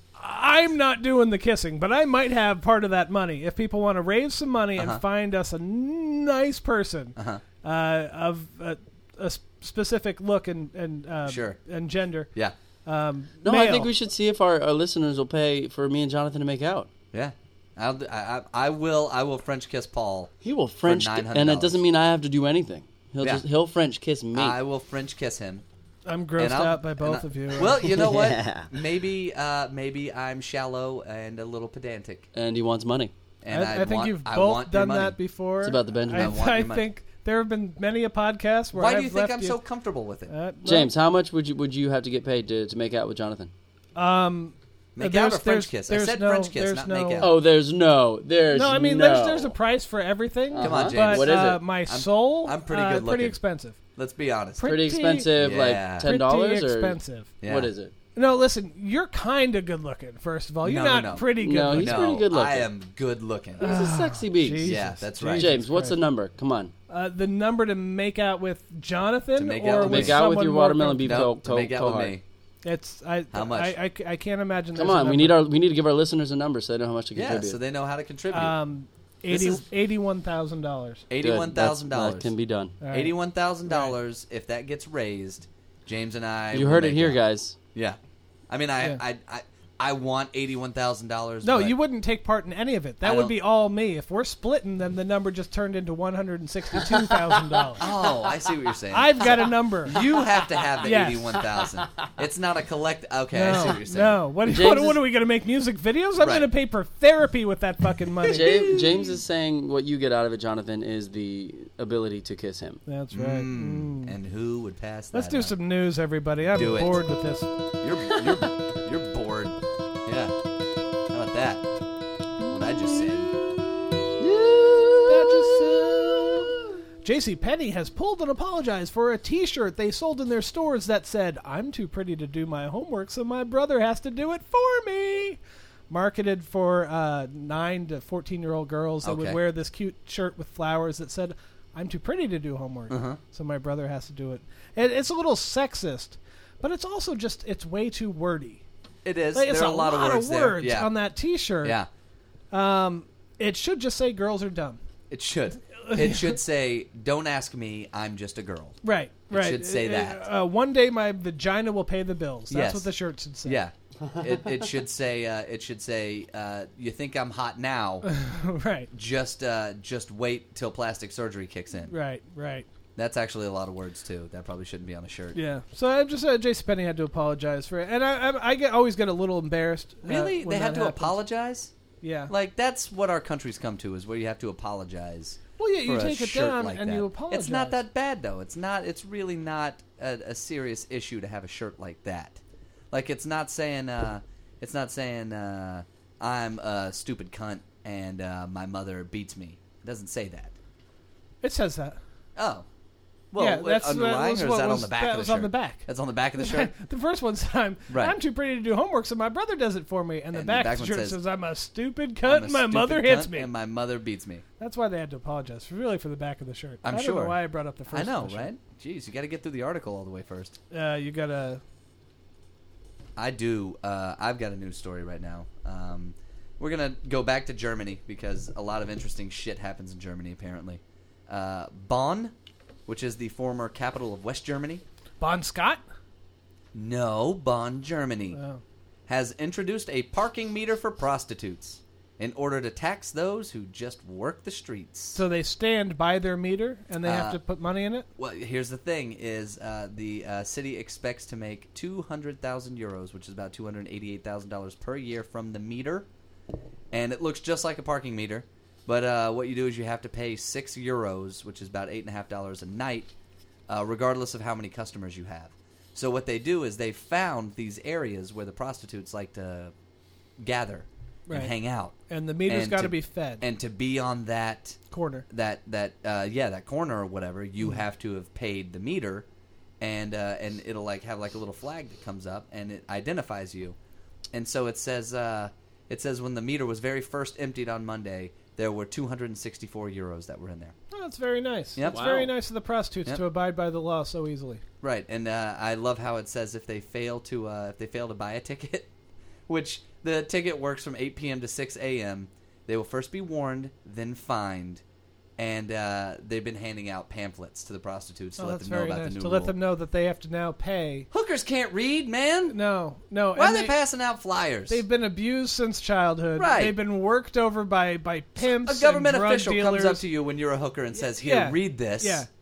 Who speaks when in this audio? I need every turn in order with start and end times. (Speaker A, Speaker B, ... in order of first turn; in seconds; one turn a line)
Speaker A: 0.2-12.3
Speaker B: 4.8-5.0
Speaker B: 7.2-7.4
Speaker B: 11.2-11.6
Speaker A: 12.8-13.9
Speaker C: 13.4-16.9
Speaker B: 17.1-20.3
Speaker C: 20.4-24.6
Speaker B: 20.8-21.8
Speaker B: 24.3-25.6
Speaker A: 26.1-27.9
Speaker B: 26.4-32.3
Speaker C: 27.8-28.7
Speaker C: 32.4-33.1
Speaker B: 33.4-35.2
Speaker A: 33.5-39.6
Speaker C: 35.6-36.4
Speaker B: 36.1-36.9
Speaker B: 38.7-40.3
Speaker A: 40.3-40.9
Speaker C: 40.6-43.5
Speaker A: 44.0-47.3
Speaker B: 45.0-47.4
Speaker C: 47.2-49.5
Speaker A: 48.5-53.8
Speaker C: 50.5-51.6
Speaker B: 50.6-53.4
Speaker B: 54.0-54.8
Speaker A: 54.6-55.3
Speaker C: 54.6-57.9
Speaker B: 55.4-56.1
Speaker A: 56.0-57.3
Speaker B: 57.4-57.7
Speaker A: 58.1-62.1
Speaker B: 60.6-63.7
Speaker C: 61.4-62.7
Speaker A: 63.6-66.0
Speaker C: 63.6-66.7
Speaker B: 64.6-65.5
Speaker A: 66.9-71.3
Speaker B: 69.3-70.2
Speaker C: 69.8-72.2
Speaker B: 71.0-72.2
Speaker A: 72.7-75.4
Speaker B: 73.3-73.8
Speaker C: 74.8-77.6
Speaker B: 77.1-78.6
Speaker A: 78.3-81.1
Speaker B: 79.3-79.6
Speaker B: 81.1-82.3
Speaker C: 81.2-82.8
Speaker A: 82.8-83.1
Speaker B: 82.9-87.2
Speaker A: 83.7-84.0
Speaker C: 86.5-87.6
Speaker B: 88.5-91.8
Speaker A: 91.4-97.9
Speaker B: 93.0-93.4
Speaker B: 97.8-104.6
Speaker A: 98.9-100.0
Speaker C: 99.9-101.9
Speaker A: 100.8-101.4
Speaker A: 103.3-108.7
Speaker C: 104.4-105.0
Speaker B: 106.2-106.5
Speaker B: 108.2-109.2
Speaker C: 108.3-112.8
Speaker A: 112.9-114.1
Speaker B: 113.1-115.5
Speaker A: 115.1-117.5
Speaker B: 116.5-117.0
Speaker B: 117.8-120.3
Speaker B: 121.1-121.7
Speaker B: 122.5-123.4
Speaker C: 122.5-123.3
Speaker C: 124.2-126.5
Speaker A: 125.1-148.6
Speaker B: 139.0-139.4
Speaker B: 142.9-143.2
Speaker B: 149.1-150.9
Speaker A: 149.3-151.8
Speaker B: 151.6-151.9
Speaker A: 152.5-154.8
Speaker B: 155.1-158.8
Speaker A: 155.7-156.4
Speaker A: 158.8-163.6
Speaker B: 159.3-160.3
Speaker B: 162.5-162.9
Speaker B: 163.4-168.1
Speaker A: 168.0-168.9
Speaker B: 168.9-171.9
Speaker A: 171.9-172.7
Speaker B: 173.0-175.4
Speaker A: 175.3-181.2
Speaker B: 180.1-181.7
Speaker A: 182.0-182.3
Speaker B: 182.3-200.5
Speaker A: 185.6-187.8
Speaker A: 201.4-202.0
Speaker B: 202.4-202.7
Speaker B: 203.3-206.7
Speaker A: 203.4-213.5
Speaker B: 207.9-208.2
Speaker B: 210.3-211.2
Speaker B: 212.2-214.4
Speaker A: 214.6-218.5
Speaker B: 216.8-217.4
Speaker B: 217.9-220.6
Speaker A: 220.7-221.6
Speaker B: 223.2-232.3
Speaker B: 232.9-234.8
Speaker A: 235.2-235.8
Speaker B: 236.7-238.4
Speaker A: 238.3-238.6
Speaker B: 239.1-245.2
Speaker A: 245.1-248.1
Speaker B: 247.1-247.4
Speaker B: 248.2-256.1
Speaker B: 256.9-263.1
Speaker B: 263.7-269.7
Speaker B: 270.4-272.0
Speaker A: 271.3-271.6
Speaker A: 272.1-273.4
Speaker B: 272.5-274.8
Speaker A: 274.9-275.3
Speaker B: 275.3-279.3
Speaker B: 279.8-283.8
Speaker B: 284.3-290.8
Speaker A: 290.9-294.6
Speaker B: 291.8-292.3
Speaker C: 291.9-292.3
Speaker B: 294.8-298.9
Speaker B: 299.5-304.8
Speaker B: 305.4-309.5
Speaker A: 308.4-311.1
Speaker B: 311.1-312.6
Speaker A: 312.5-313.8
Speaker B: 313.4-314.8
Speaker A: 314.7-320.0
Speaker B: 316.4-316.8
Speaker B: 318.4-322.3
Speaker A: 321.2-322.3